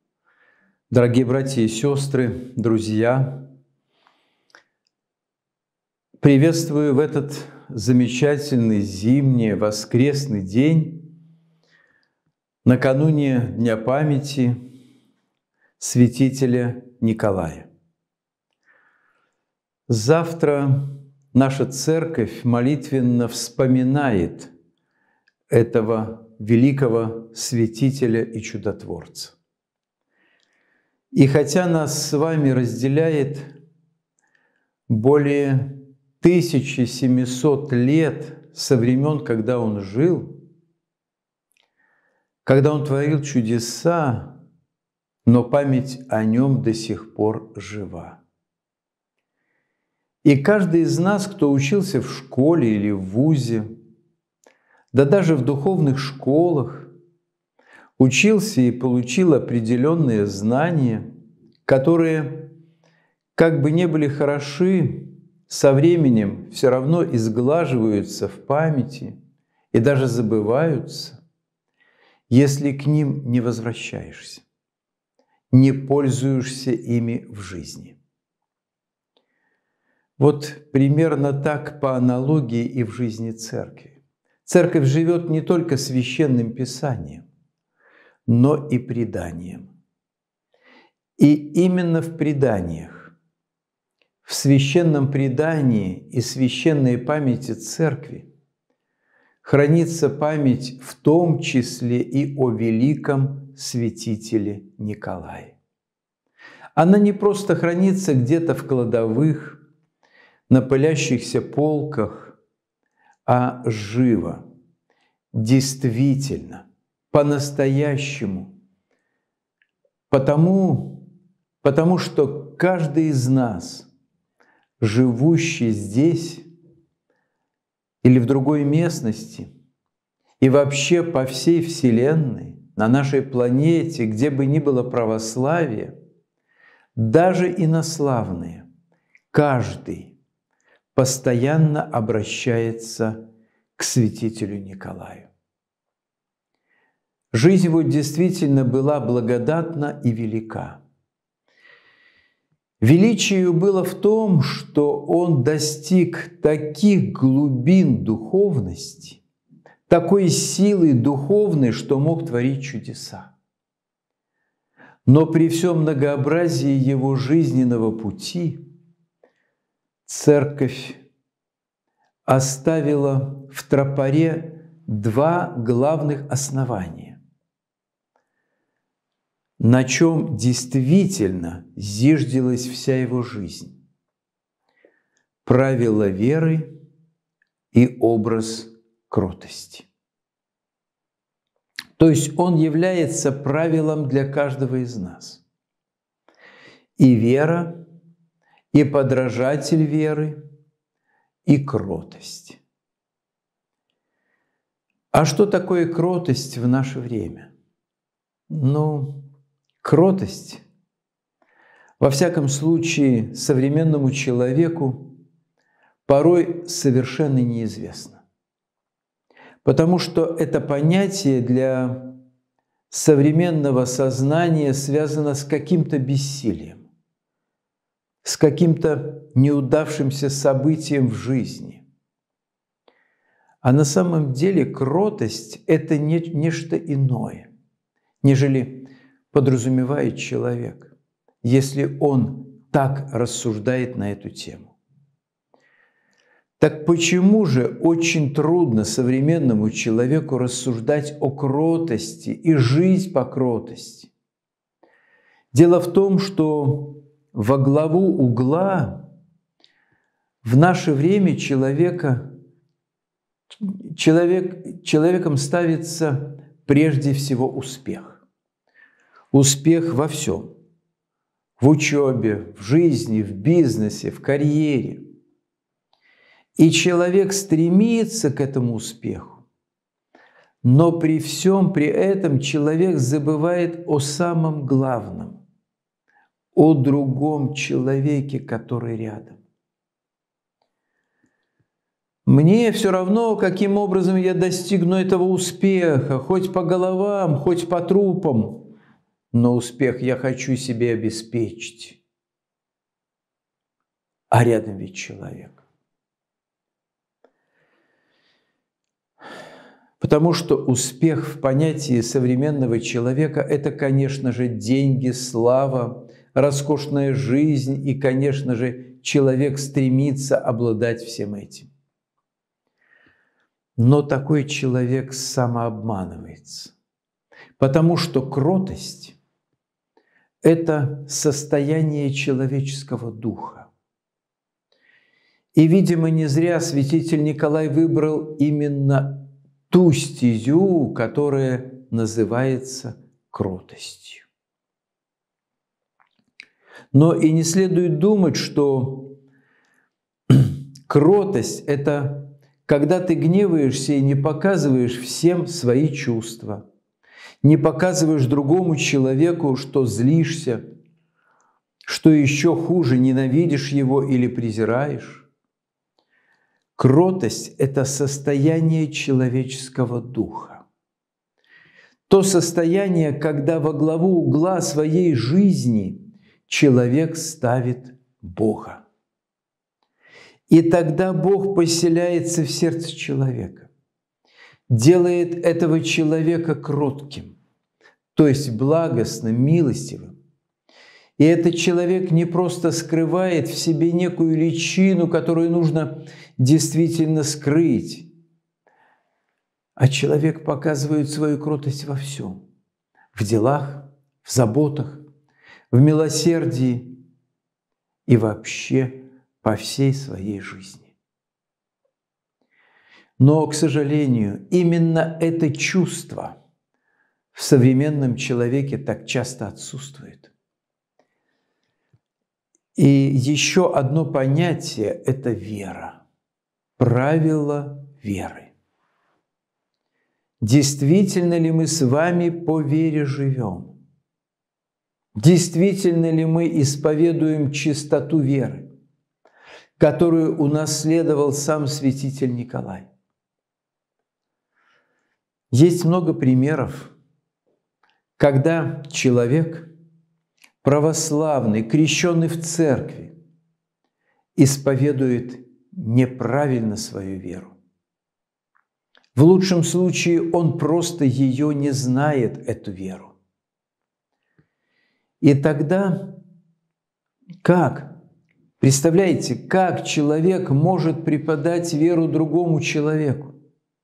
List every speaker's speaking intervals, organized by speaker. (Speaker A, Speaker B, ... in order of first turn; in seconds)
Speaker A: 0.9-3.4, 6.2-11.1, 12.6-14.6, 15.8-17.7, 19.9-24.5, 25.5-29.4, 31.1-33.5, 34.9-40.4, 42.4-44.4, 45.2-48.2, 50.2-53.7, 54.9-56.9, 58.0-61.0, 61.6-62.5, 63.3-69.2, 69.7-71.2, 72.3-74.4, 75.5-78.0, 80.2-87.2, 88.3-89.7, 91.2-93.1, 94.2-98.3, 99.4-105.6, 106.7-109.6, 110.5-112.4, 113.2-114.4, 115.3-118.5, 120.1-121.0, 121.6-123.9, 124.8-126.5, 128.0-129.5, 130.4-135.9, 136.9-138.7, 139.3-140.2, 140.9-143.2, 143.8-145.3, 147.3-150.8, 152.8-159.2, 159.9-163.3, 165.1-168.6, 170.0-171.0, 172.2-177.2, 179.6-183.8, 185.4-186.7, 187.7-189.9, 192.0-195.4, 197.0-197.8, 198.7-200.4, 201.4-202.6, 205.1-207.5, 208.5-209.2, 209.8-210.6, 212.0-215.1, 216.1-218.2, 219.6-222.2, 222.9-226.8, 228.2-231.8, 233.6-237.5, 238.2-244.7, 246.6-254.1, 255.5-259.1, 260.4-262.3, 263.6-268.2, 269.3-270.5, 271.6-275.1, 276.6-279.4, 280.6-285.4, 286.5-289.4, 292.2-298.7, 299.3-302.0, 304.3-305.6, 310.0-321.7, 323.8-326.7, 327.6-329.2, 330.4-333.7, 335.5-344.2, 346.9-349.2, 350.3-356.6, 357.4-360.6, 361.9-365.3, 366.8-370.6, 372.1-378.8, 380.5-383.7, 384.7-387.4, 388.1-390.1, 391.2-398.1, 399.8-402.4, 403.1-405.0, 405.7-407.0, 408.1-410.9, 413.2-416.4, 417.3-420.3, 422.8-426.0, 426.8-428.5, 430.4-433.8, 435.2-438.7, 439.8-442.9, 445.5-446.9, 448.2-449.7, 450.6-453.1, 454.4-457.5, 459.1-463.1, 465.2-466.2, 467.4-467.9, 468.6-473.3